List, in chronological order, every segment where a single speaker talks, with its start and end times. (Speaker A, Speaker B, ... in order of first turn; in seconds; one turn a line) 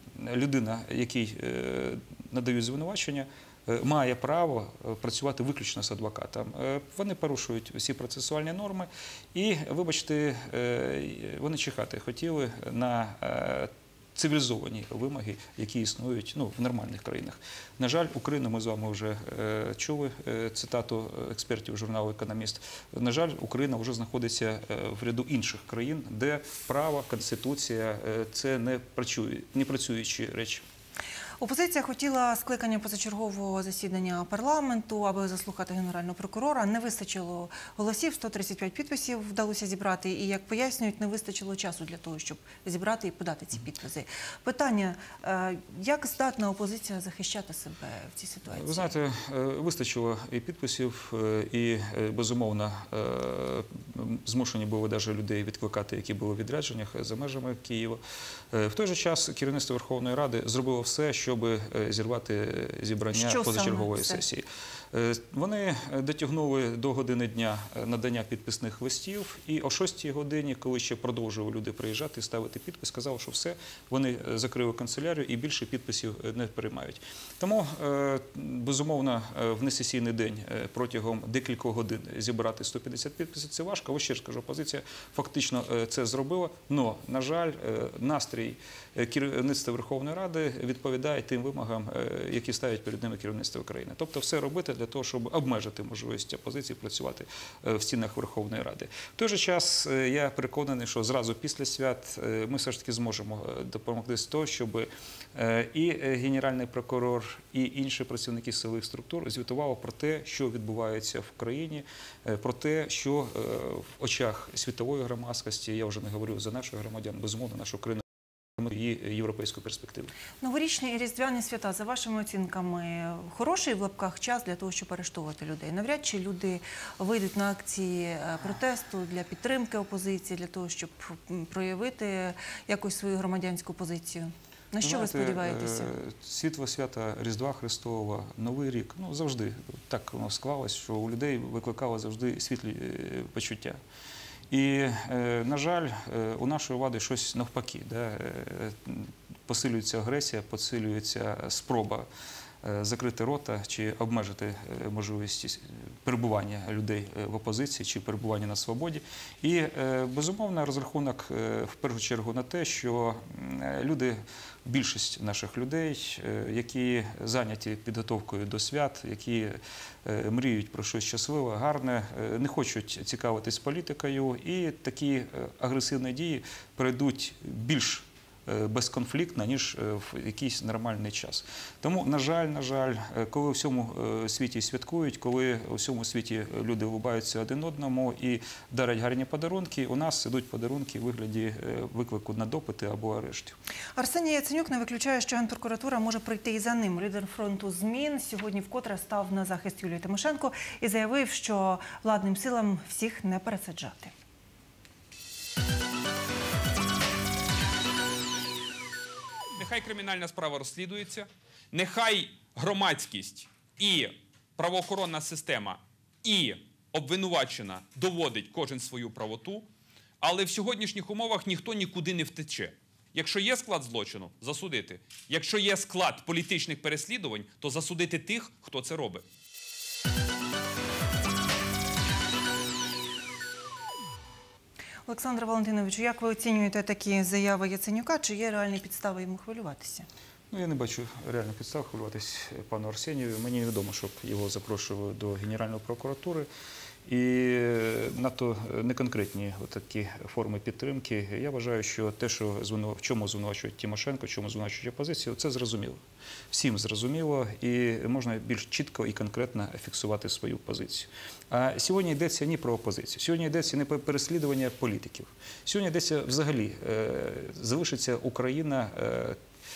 Speaker A: 0.1-30.6
Speaker B: 31.4-48.9
Speaker A: 48.5-58.0
Speaker A: 58.5-118.0
Speaker B: 63.1-64.2
Speaker A: 118.6-120.1
Speaker B: 120.4-135.9
Speaker A: 134.8-143.8
Speaker A: 144.5-152.1
Speaker A: 152.6-193.6
Speaker B: 193.9-204.1
Speaker C: 209.6-219.7
Speaker C: 220.2-229.2
Speaker B: 235.1-240.1
Speaker A: 240.5-246.5
Speaker A: 247.1-256.0
Speaker A: 256.5-269.4